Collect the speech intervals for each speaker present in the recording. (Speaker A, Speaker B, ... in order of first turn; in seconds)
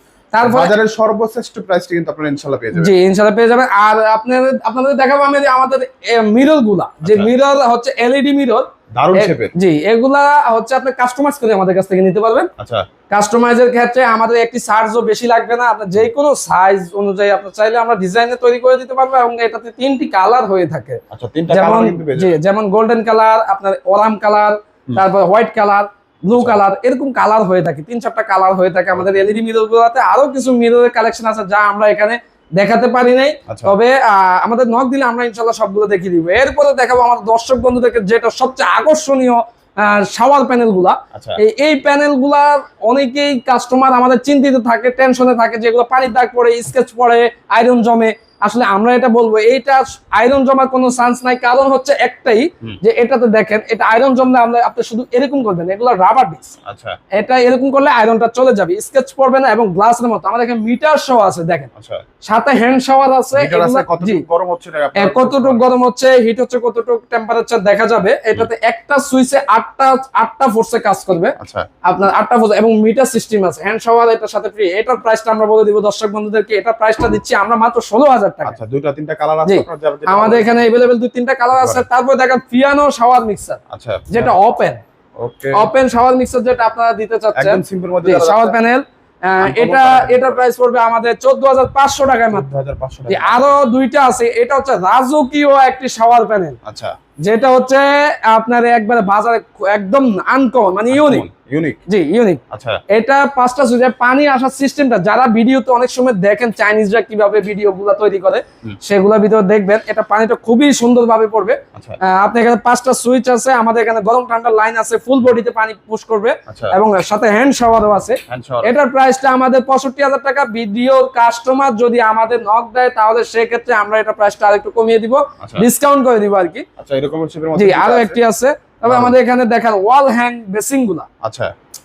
Speaker A: 0.3-0.7, 2.7-12.5, 13.1-56.5, 57.1-61.7, 62.2-64.2, 65.0-78.5, 79.5-84.8, 85.5-92.5, 93.1-96.6, 97.2-101.3, 101.9-126.6, 127.5-131.1
Speaker B: 0.4-2.9, 7.0-7.3, 8.9-9.5, 12.6-12.8, 21.1-22.4, 28.9-29.2, 33.5-33.8, 41.1-41.4, 56.6-57.0, 61.7-62.0, 63.3-65.7, 71.4-71.7, 78.4-80.6, 81.5-81.8, 83.7-84.3, 85.2-85.7, 87.3-88.5, 89.4-90.4, 92.3-93.5, 96.6-96.9, 100.9-101.8, 102.5-102.8, 116.5-116.8, 118.3-118.7, 126.8-128.2, 128.8-129.2, 131.2-131.5